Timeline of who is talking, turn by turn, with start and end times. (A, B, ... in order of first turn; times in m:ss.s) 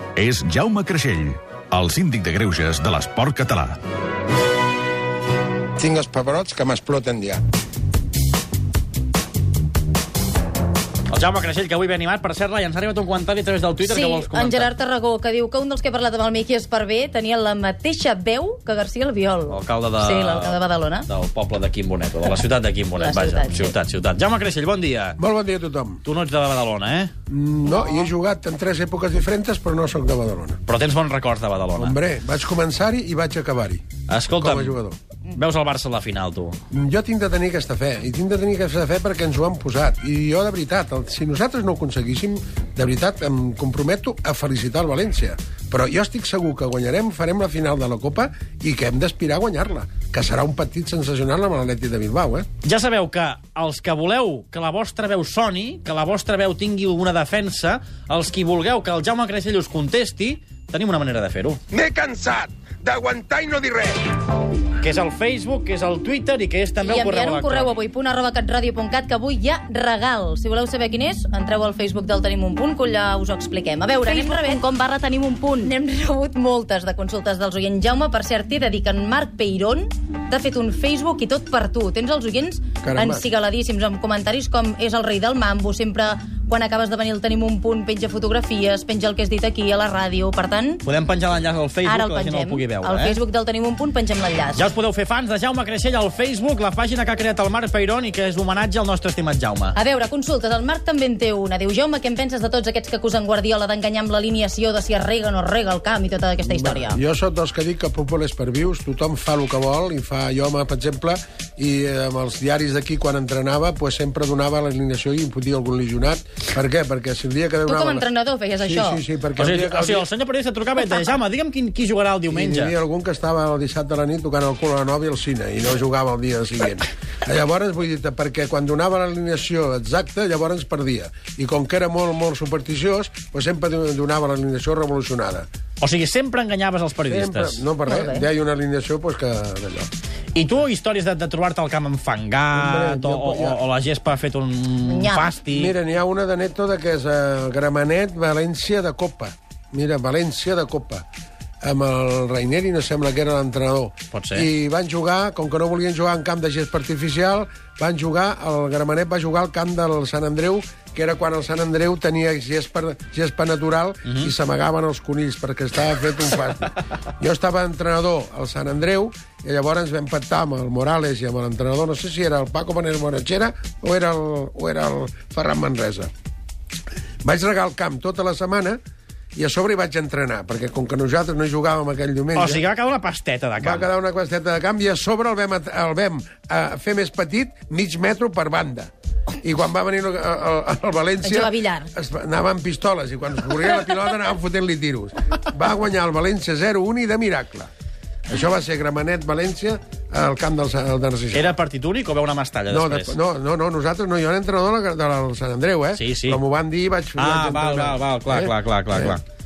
0:00.2-0:03.8 A
0:05.8-0:07.4 B
0:11.1-0:14.7 C
0:13.8-0:21.0 D
0:19.5-0:25.2 C
0:23.0-0:23.8 D
0:25.2-0:26.0 E
0:26.0-0:27.1 C
0:27.3-0:30.6 E
0:30.7-0:32.0 C
0:31.8-0:33.8 E
0:34.1-0:34.8 C
0:34.4-0:35.0 E
0:35.3-0:36.6 C
0:36.7-0:52.5 E
0:52.6-1:01.6 C
1:01.7-1:04.0 B
1:04.8-1:07.7 C
1:06.8-1:30.8 D
1:22.8-1:23.2 E
1:30.8-1:33.2 C
1:31.8-1:34.7 D
1:34.6-1:39.8 C
1:39.8-1:47.0 D
1:46.4-1:58.1 E
1:57.7-1:59.0 D
1:58.6-2:00.1 E
1:59.4-2:02.7 C
2:02.3-2:15.5 E
2:15.8-2:17.7 C
2:17.1-2:19.9 E
2:17.8-2:18.3 D
2:20.3-2:25.7 C
2:22.5-2:23.6 E
2:24.8-2:25.3 D
2:25.5-2:31.0 E
2:31.6-2:56.1 E
2:34.1-2:34.5 C
2:44.0-2:44.3 C
2:57.2-2:58.8 E
2:59.3-3:02.6 E
3:02.3-3:03.9 C
3:03.6-3:17.7 E
3:11.2-3:11.9 D
3:18.3-3:21.5 E
3:21.3-3:23.2 C
3:22.7-3:29.2 E
3:25.9-3:26.4 C
3:27.2-3:29.2 C